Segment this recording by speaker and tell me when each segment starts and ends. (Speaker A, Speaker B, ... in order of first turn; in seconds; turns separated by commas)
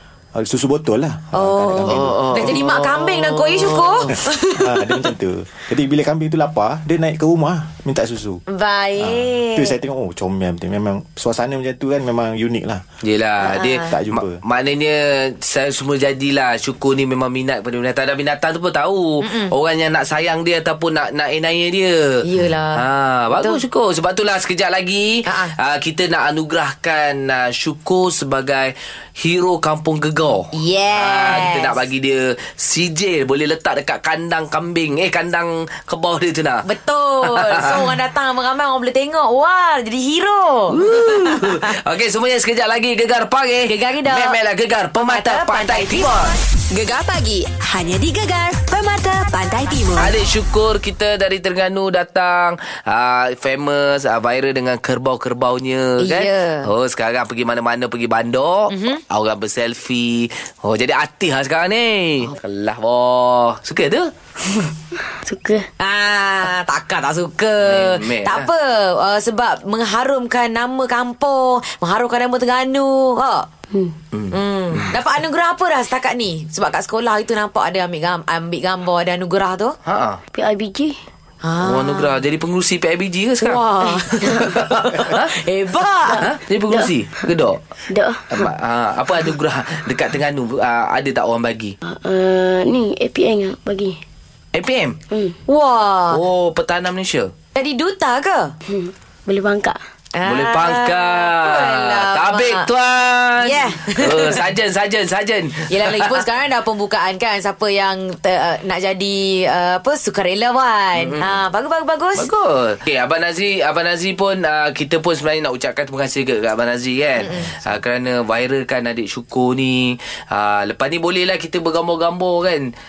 Speaker A: 0.3-2.5, Speaker B: 1.3-4.8, Speaker C: 1.8-4.1, Speaker A: 4.1-8.4, Speaker B: 8.5-9.8, Speaker A: 9.0-12.8, Speaker C: 13.0-22.2, Speaker B: 13.4-13.9, Speaker A: 13.9-14.4, Speaker B: 19.2-19.5, Speaker B: 22.2-22.8, Speaker C: 22.7-36.6, Speaker B: 23.3-23.6, Speaker B: 25.2-25.5, Speaker B: 30.5-31.8, Speaker B: 36.6-41.8, Speaker C: 37.2-37.9, Speaker C: 40.7-46.3, Speaker B: 43.7-44.4, Speaker B: 45.1-46.2, Speaker D: 46.7-50.1, Speaker C: 50.0-64.1, Speaker B: 56.0-56.7, Speaker B: 58.7-59.0, Speaker E: 64.5-65.7, Speaker B: 65.8-73.5, Speaker C: 67.6-68.5, Speaker C: 74.1-75.0, Speaker B: 74.3-79.8, Speaker C: 79.8-80.2, Speaker E: 80.3-81.0, Speaker B: 81.4-82.2, Speaker C: 81.6-83.6, Speaker B: 83.4-86.2, Speaker E: 84.3-84.6, Speaker C: 84.4-85.3, Speaker E: 86.0-86.9, Speaker C: 86.2-87.6, Speaker E: 87.9-88.5, Speaker C: 88.3-91.7, Speaker E: 91.9-94.0, Speaker C: 94.5-95.0, Speaker E: 95.1-95.4, Speaker B: 95.5-96.2, Speaker C: 96.1-97.3, Speaker B: 97.5-98.5, Speaker E: 98.7-99.8, Speaker B: 100.1-102.7, Speaker C: 100.2-106.2, Speaker B: 103.4-104.4, Speaker B: 105.7-112.3, Speaker C: 110.9-111.4, Speaker C: 112.2-122.7, Speaker B: 117.2-117.5